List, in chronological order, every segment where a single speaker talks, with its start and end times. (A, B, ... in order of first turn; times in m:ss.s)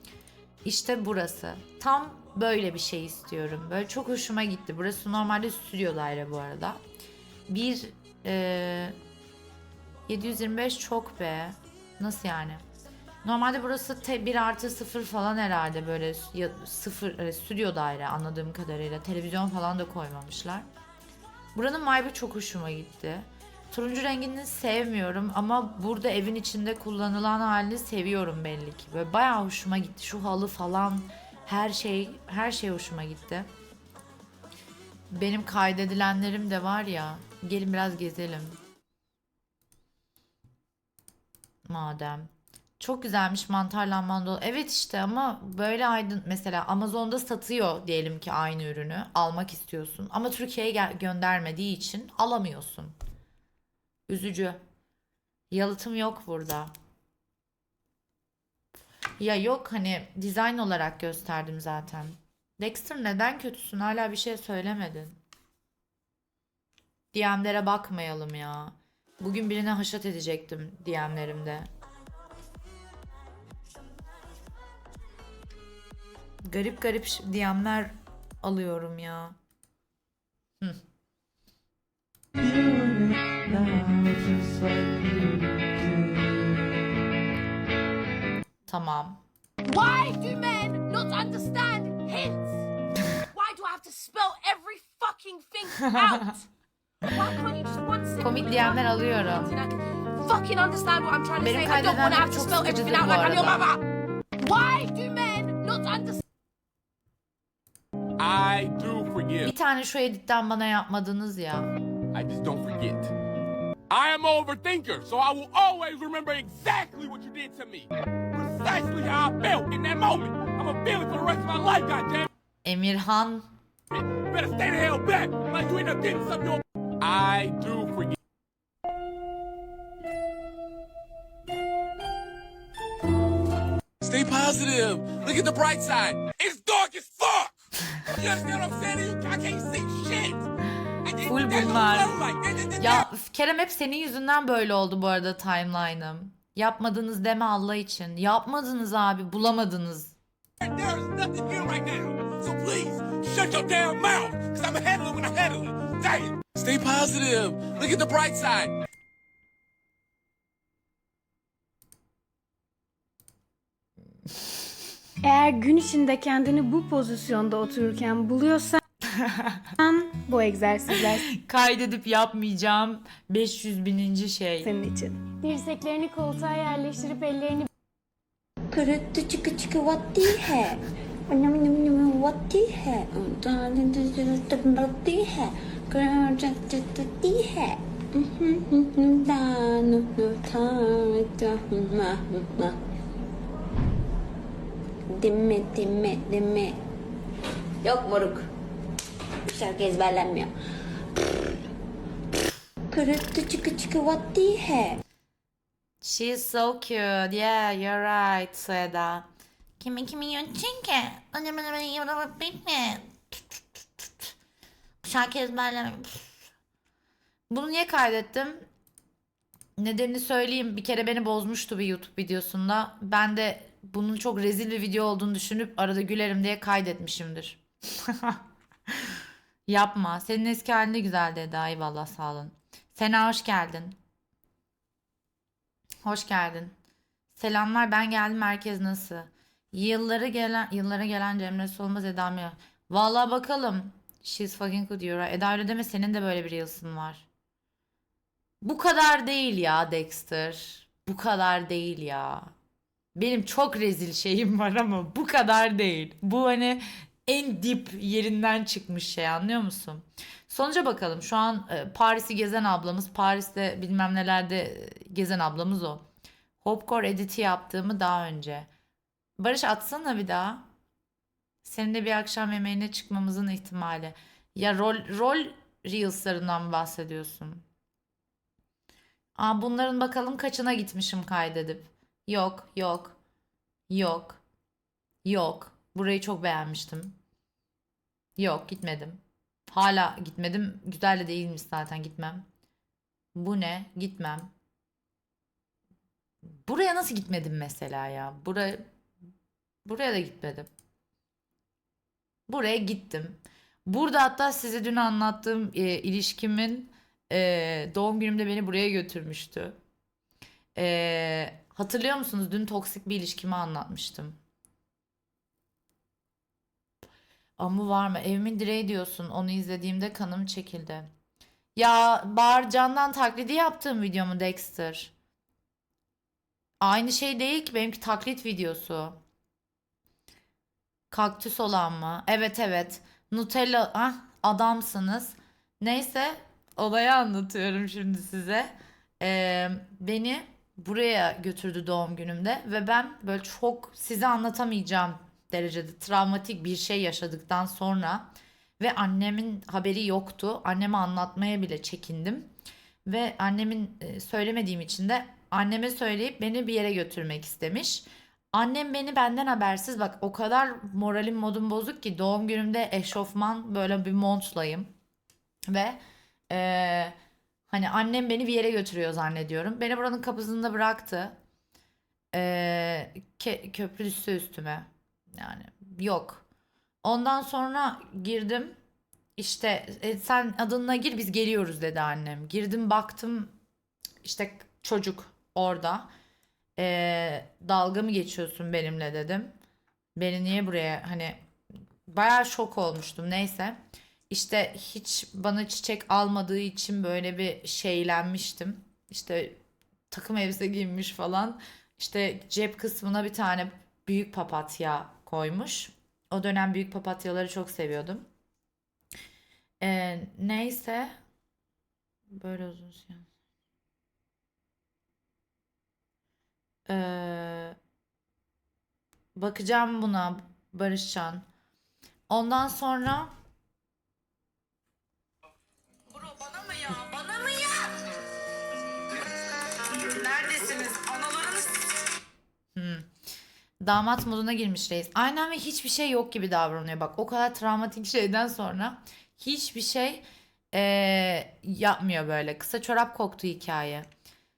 0:00.6-0:06.8 A
0:07.5-0:09.0 A
0:10.1-0:12.6 A
0:13.2-0:20.7 A
0:21.6-0:33.5 A
0:35.1-0:38.6 A
0:41.7-0:53.0 A
0:54.1-0:54.6 A
0:55.5-0:56.7 A
0:59.2-1:05.2 A
1:07.1-1:11.7 A
1:16.4-1:19.4 A
1:23.5-1:24.1 A
1:28.7-1:29.2 A
1:29.6-1:32.7 B
1:33.3-1:36.5 B
1:37.1-1:43.8 B
1:38.2-1:39.5 A
1:41.4-1:43.6 A
1:44.4-1:46.2 B
1:48.2-1:49.5 C
1:49.4-1:51.7 A
1:52.1-1:53.1 C
1:53.9-2:02.3 C
2:02.6-2:03.5 A
2:03.9-2:08.1 C
2:14.0-2:17.5 C
2:18.1-2:20.5 C
2:21.0-2:23.1 C
2:21.3-2:22.2 A
2:22.8-2:30.2 A
2:30.6-2:38.7 C
2:45.2-2:48.8 D
2:49.0-2:49.8 A
2:49.8-2:51.3 D
2:51.3-2:54.7 A
2:54.6-2:57.7 D
2:58.7-3:12.8 E
3:15.1-3:16.8 E
3:17.8-3:18.5 E
3:19.4-3:20.5 E
3:22.9-3:25.0 E
3:26.0-3:29.3 A
3:29.8-3:34.3 A
3:35.0-3:36.5 A
3:37.5-3:38.6 A
3:39.8-3:48.4 A
3:49.7-3:54.0 A
3:56.0-3:56.7 A
3:57.3-4:07.2 A
4:08.6-4:12.5 A
4:13.2-4:26.0 A
4:26.6-4:28.7 A
4:29.4-4:30.6 A
4:31.6-4:37.6 A
4:39.4-4:43.2 A
4:43.9-4:44.4 A
4:45.2-4:47.2 A
4:48.4-4:52.5 A
4:53.4-4:54.5 A
4:56.6-4:58.9 A
4:59.8-5:00.7 A
5:02.5-5:09.8 A
5:10.8-5:14.4 A
5:17.6-5:21.1 A
5:21.8-5:25.1 A
5:26.8-5:29.2 A
5:31.1-5:52.5 A
5:53.1-6:04.9 A
6:05.7-6:06.0 A
6:06.5-6:07.2 A
6:07.7-6:11.4 A
6:12.3-6:16.4 A
6:17.0-6:18.8 A
6:19.4-6:23.6 A
6:24.2-6:26.1 A
6:26.8-6:29.5 A
6:30.2-6:31.4 A
6:32.1-6:33.8 A
6:34.3-6:39.6 A
6:40.1-6:48.2 A
6:49.8-6:51.2 A
6:52.3-6:53.3 A
6:56.9-6:57.8 A
6:59.4-7:01.4 A
7:02.3-7:03.3 A
7:12.8-7:13.1 A
7:13.8-7:24.1 A